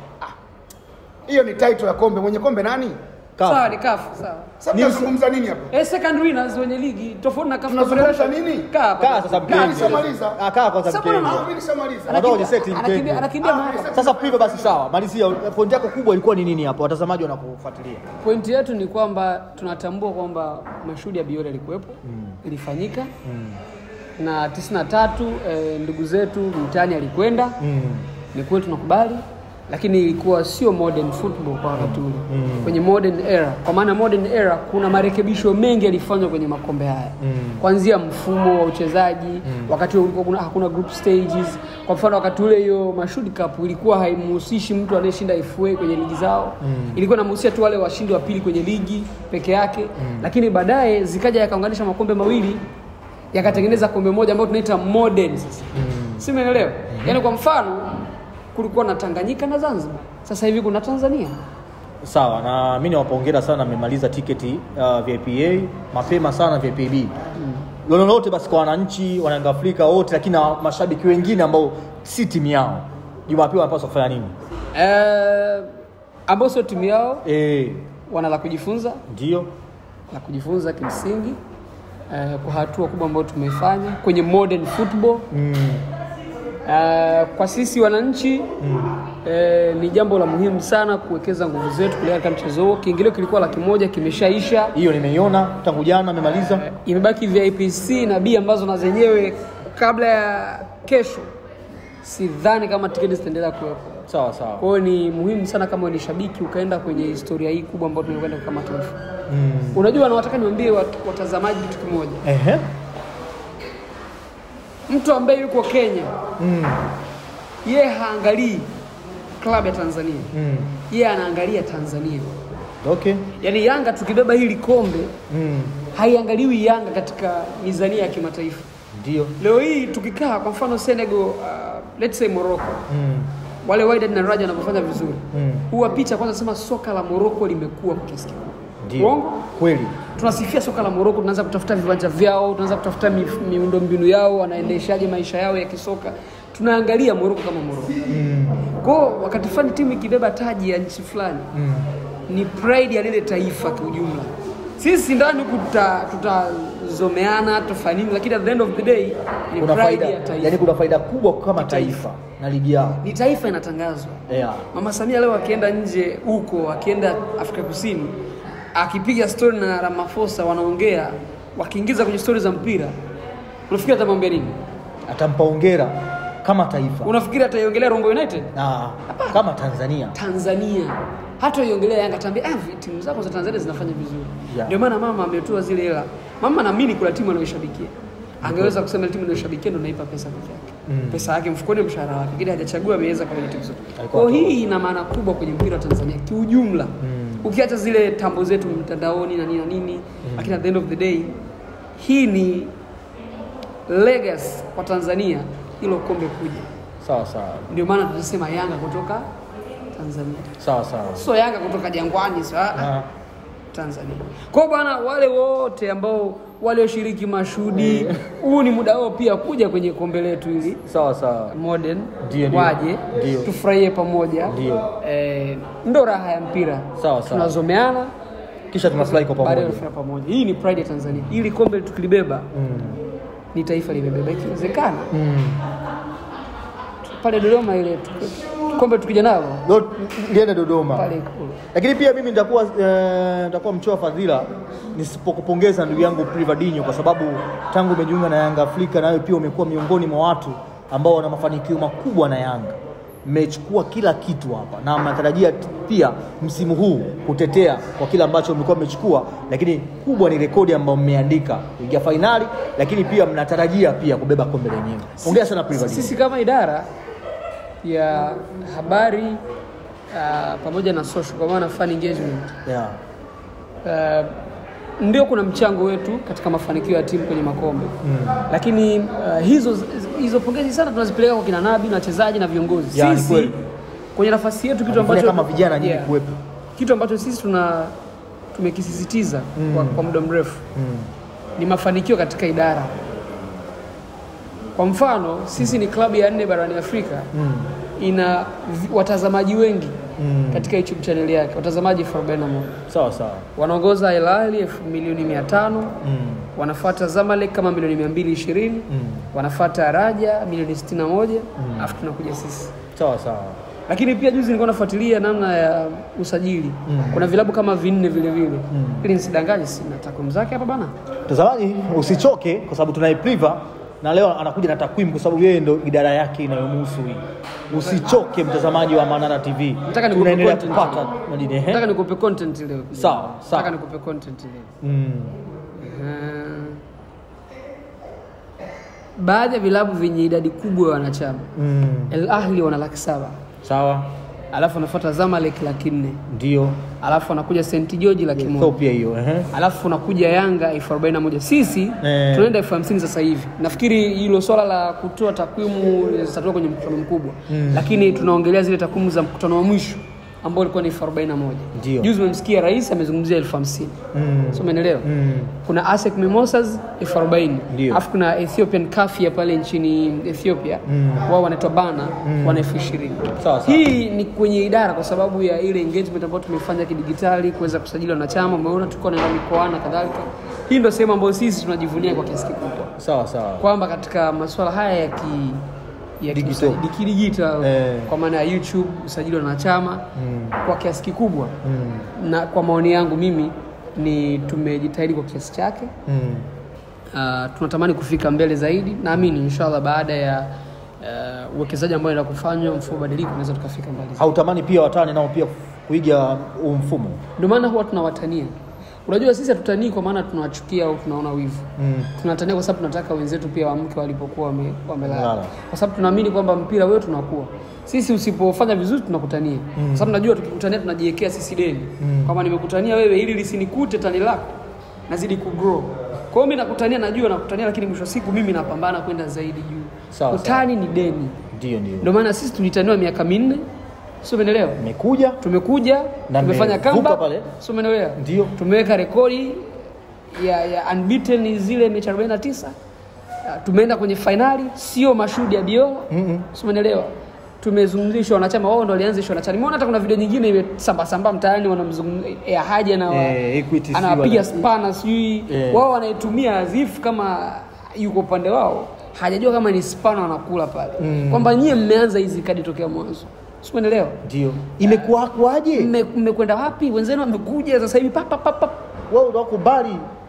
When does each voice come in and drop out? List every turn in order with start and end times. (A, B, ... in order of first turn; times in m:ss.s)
0:01.3-0:03.0 A
0:03.4-0:03.7 B
0:03.4-0:04.6 C
0:04.6-0:05.7 A
0:04.7-0:05.1 B
0:05.7-0:10.1 C
0:07.7-0:08.7 A
0:09.0-0:11.4 B
0:09.5-0:10.4 A
0:10.9-0:11.5 C
0:11.2-0:12.4 A
0:12.1-0:13.3 B
0:12.1-0:14.0 C
0:13.4-0:14.8 A
0:13.9-0:18.0 B
0:18.2-0:23.1 C
0:22.0-0:22.4 B
0:23.2-0:23.6 B
0:24.2-0:27.6 C
0:27.6-0:28.1 B
0:28.3-0:52.6 C
0:31.8-0:32.8 B
0:37.2-0:37.6 B
0:46.6-0:47.0 B
0:50.0-0:50.3 B
0:53.3-1:01.4 C
0:55.8-0:56.2 B
0:56.9-0:57.2 B
1:02.0-1:07.1 B
1:07.9-1:14.4 B
1:14.7-1:15.7 C
1:16.3-1:17.3 C
1:17.2-1:17.9 B
1:18.1-1:19.0 C
1:19.1-1:19.5 B
1:20.1-1:21.4 C
1:22.1-1:25.3 C
1:25.3-1:25.8 B
1:26.6-1:28.5 C
1:28.6-1:28.9 B
1:29.2-1:34.8 C
1:34.7-1:36.7 B
1:36.6-1:41.3 C
1:42.0-1:44.0 C
1:44.1-1:44.6 B
1:44.6-1:49.0 C
1:49.3-1:49.8 B
1:49.7-1:52.2 C
1:52.2-1:52.6 B
1:54.9-1:56.2 C
1:56.4-1:56.8 B
1:57.6-1:58.7 C
1:59.4-2:00.3 C
2:00.3-2:00.7 B
2:00.9-2:02.3 C
2:02.8-2:03.3 B
2:03.4-2:05.1 C
2:05.3-2:05.8 B
2:05.9-2:08.7 C
2:09.0-2:09.4 B
2:09.4-2:12.8 C
2:12.9-2:13.3 B
2:13.6-2:19.5 C
2:15.3-2:15.7 B
2:18.8-2:20.0 B
2:20.1-2:28.0 C
2:28.1-2:28.7 B
2:28.8-2:31.5 C
2:31.5-2:31.9 B
2:32.3-2:40.6 C
2:39.6-2:43.0 B
2:41.6-2:42.1 C
2:43.0-2:48.2 C
2:44.3-2:44.7 B
2:48.8-2:53.0 C
2:53.7-2:54.6 C
2:55.1-2:57.1 B
2:57.0-2:58.5 C
2:58.5-3:00.2 B
2:59.1-2:59.4 C
3:00.1-3:21.4 C
3:04.5-3:04.8 B
3:08.4-3:08.8 B
3:10.9-3:11.3 B
3:14.0-3:14.6 B
3:17.0-3:17.5 B
3:20.2-3:20.6 B
3:22.0-3:22.7 C
3:23.9-3:26.7 C
3:27.0-3:27.7 B
3:27.7-3:29.3 C
3:29.9-3:30.6 C
3:30.6-3:31.2 B
3:31.2-3:33.0 C
3:32.8-3:33.1 B
3:33.7-3:40.8 C
3:37.8-3:38.2 B
3:40.9-3:41.6 B
3:41.5-3:48.1 C
3:42.2-3:43.5 B
3:44.5-3:44.9 B
3:47.0-3:47.6 B
3:48.7-3:49.8 B
3:49.0-3:52.5 C
3:52.5-3:53.0 B
3:53.5-3:55.1 C
3:55.1-3:55.6 B
3:57.0-3:59.7 C
3:59.6-4:01.1 B
4:00.9-4:01.6 C
4:01.7-4:26.2 B
4:25.2-4:26.9 C
4:27.8-4:29.4 C
4:30.1-4:32.5 C
4:32.6-4:33.0 B
4:33.8-4:34.4 C
4:35.0-4:43.6 C
4:38.0-4:38.4 B
4:42.9-4:43.5 B
4:44.2-4:46.2 C
4:44.9-4:46.4 B
4:46.8-4:48.0 C
4:48.6-4:50.6 C
4:49.6-4:50.1 B
4:50.8-4:51.1 B
4:51.6-4:53.0 C
4:54.8-4:57.3 C
4:57.3-4:57.8 B
4:58.0-5:00.0 C
5:00.2-5:00.7 B
5:00.5-5:02.9 C
5:02.9-5:03.5 B
5:03.6-5:06.0 C
5:06.0-5:06.5 B
5:06.6-5:12.8 C
5:08.9-5:09.3 B
5:11.6-5:11.9 B
5:13.0-5:13.6 B
5:13.9-5:20.9 C
5:16.9-5:17.3 B
5:18.7-5:19.1 B
5:21.3-5:31.8 B
5:27.7-5:28.2 C
5:29.9-5:31.1 C
5:31.7-5:34.7 C
5:33.0-5:33.7 B
5:34.8-5:35.4 B
5:35.8-5:36.8 C
5:39.2-5:41.5 C
5:41.6-5:42.1 B
5:42.1-5:43.4 C
5:43.6-5:44.1 B
5:44.5-5:46.2 C
5:46.3-5:46.8 B
5:47.0-5:48.8 C
5:48.4-5:49.5 B
5:49.5-6:04.0 C
5:52.0-5:52.5 B
5:57.5-5:57.9 B
6:01.8-6:02.1 B
6:04.1-6:05.5 B
6:04.5-6:05.1 C
6:05.6-6:22.9 C
6:07.7-6:08.0 B
6:10.9-6:11.3 B
6:12.2-6:12.7 B
6:13.4-6:13.9 B
6:23.0-6:23.7 B
6:23.6-6:25.7 C
6:26.2-6:30.1 C
6:26.3-6:26.8 B
6:27.6-6:28.1 B
6:30.2-6:30.6 B
6:30.6-6:31.6 C
6:31.6-6:32.1 B
6:32.2-6:35.9 C
6:36.1-6:36.5 B
6:37.1-6:44.3 C
6:44.2-6:47.2 B
6:47.4-6:48.6 C
6:49.1-7:04.6 C
6:51.8-6:52.1 B
6:55.1-6:55.5 B
6:59.8-7:00.1 B
7:02.0-7:02.3 B
7:05.1-7:11.4 C
7:10.1-7:10.7 B
7:11.5-7:12.1 B
7:12.0-7:13.7 C
7:14.2-7:14.8 C
7:14.8-7:15.4 B
7:15.4-7:19.7 C
7:16.3-7:17.5 B
7:18.2-7:18.5 B
7:20.3-7:22.8 C
7:23.4-7:33.4 C
7:26.1-7:26.5 B
7:33.1-7:34.6 B
7:33.9-7:44.2 C
7:35.5-7:35.8 B
7:41.0-7:41.5 B
7:44.2-7:45.9 B
7:44.8-7:45.1 C
7:45.7-7:48.8 C
7:49.1-7:50.0 B